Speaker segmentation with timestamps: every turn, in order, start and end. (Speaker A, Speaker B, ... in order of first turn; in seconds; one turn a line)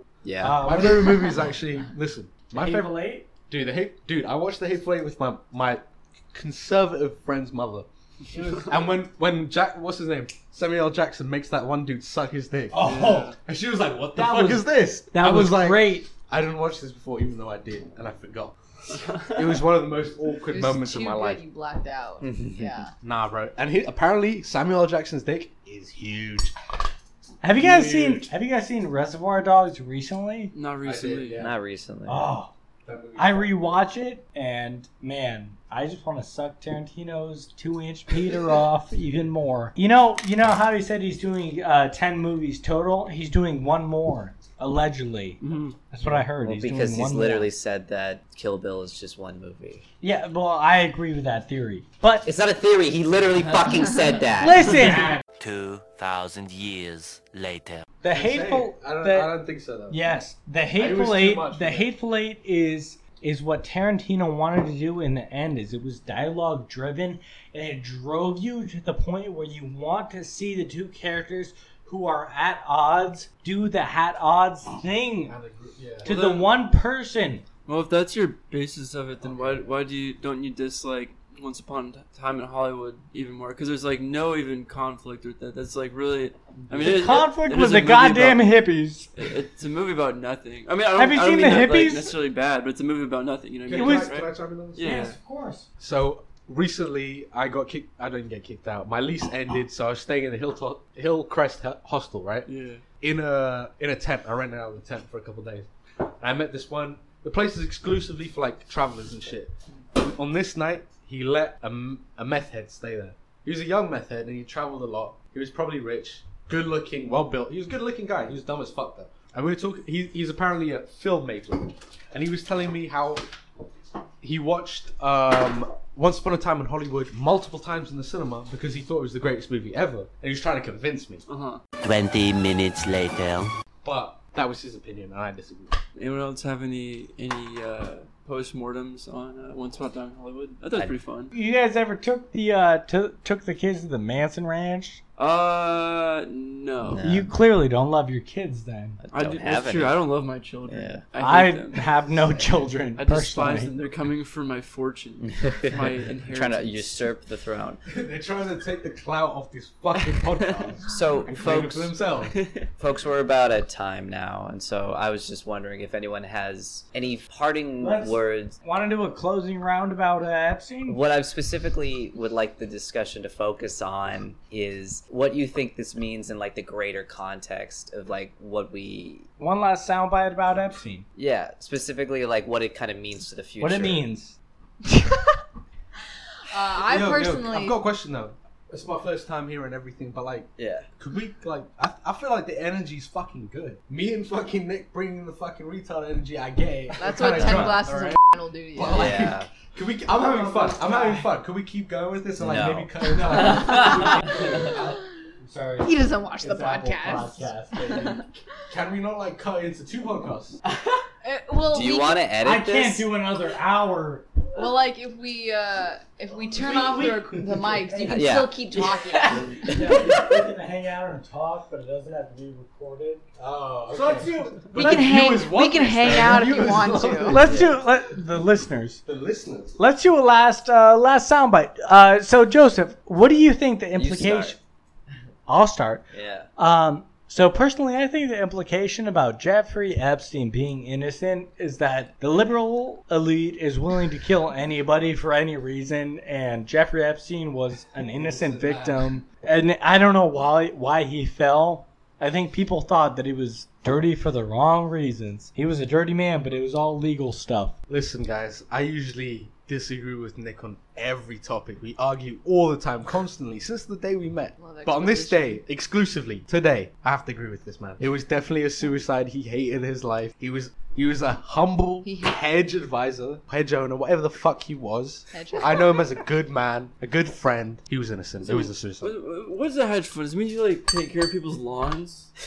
Speaker A: 0.2-0.6
Speaker B: 0.4-1.3
Speaker C: 0.6-2.9
Speaker B: 2.5-3.3
Speaker C: 3.5-18.6
Speaker B: 8.3-8.6
Speaker B: 12.7-13.4
Speaker D: 12.8-13.4
Speaker B: 14.2-16.1
Speaker C: 19.1-21.4
Speaker E: 20.5-22.9
Speaker A: 22.2-22.7
Speaker C: 23.0-26.6
Speaker B: 27.4-30.5
Speaker C: 27.6-28.3
Speaker D: 27.7-27.9
Speaker D: 30.5-31.4
Speaker C: 30.8-31.5
Speaker A: 31.4-32.4
Speaker B: 32.1-32.5
Speaker C: 32.9-33.8
Speaker B: 33.2-47.5
Speaker D: 45.4-45.8
Speaker A: 46.4-49.8
Speaker B: 50.0-52.3
Speaker A: 52.2-54.7
Speaker B: 54.4-55.2
Speaker C: 54.7-55.2
Speaker F: 55.4-57.9
Speaker B: 58.0-59.4
Speaker C: 58.1-60.0
Speaker B: 59.9-75.3
Speaker C: 60.8-61.9
Speaker C: 75.2-76.2
Speaker D: 76.0-76.5
Speaker B: 76.0-77.4
Speaker D: 77.7-88.5
Speaker C: 79.2-79.6
Speaker C: 86.6-87.3
Speaker B: 86.8-89.1
Speaker D: 89.2-95.2
Speaker B: 90.9-92.2
Speaker C: 93.7-94.9
Speaker B: 93.7-94.2
Speaker B: 94.8-95.7
Speaker C: 95.8-102.5
Speaker D: 102.5-102.8
Speaker C: 103.0-123.3
Speaker C: 124.2-131.2
Speaker D: 131.3-131.6
Speaker F: 131.8-133.5
Speaker C: 133.8-135.8
Speaker D: 136.0-141.3
Speaker B: 141.3-145.0
Speaker D: 145.2-147.0
Speaker A: 146.8-147.3
Speaker B: 147.0-149.0
Speaker A: 149.0-150.0
Speaker D: 149.1-151.9
Speaker A: 150.7-151.0
Speaker B: 151.2-153.7
Speaker C: 152.2-152.7
Speaker D: 153.0-156.9
Speaker A: 155.2-157.8
Speaker C: 157.9-162.4
Speaker A: 160.9-161.9
Speaker D: 162.3-162.7
Speaker A: 162.8-168.6
Speaker B: 167.8-171.0
Speaker A: 170.9-179.3
Speaker B: 179.4-181.1
Speaker A: 181.2-184.0
Speaker B: 183.6-184.4
Speaker E: 186.5-187.8
Speaker C: 186.8-198.2
Speaker A: 190.6-190.9
Speaker E: 196.9-199.3
Speaker C: 198.7-204.7
Speaker A: 198.9-199.5
Speaker B: 200.2-201.3
Speaker A: 202.4-202.9
Speaker B: 203.1-208.3
Speaker E: 205.8-208.3
Speaker C: 208.7-210.6
Speaker E: 211.2-212.3
Speaker A: 211.7-213.1
Speaker B: 212.4-214.3
Speaker E: 214.5-219.8
Speaker B: 216.5-218.4
Speaker A: 218.1-220.4
Speaker B: 219.4-223.3
Speaker C: 223.4-227.8
Speaker B: 223.9-225.1
Speaker E: 224.7-227.5
Speaker B: 227.3-229.0
Speaker C: 229.1-229.8
Speaker B: 229.8-234.6
Speaker A: 233.9-234.6
Speaker B: 235.5-257.8
Speaker A: 236.1-236.5
Speaker C: 248.0-249.2
Speaker C: 257.9-279.2
Speaker E: 264.6-265.6
Speaker E: 272.0-272.4
Speaker E: 275.3-276.1
Speaker D: 278.4-282.3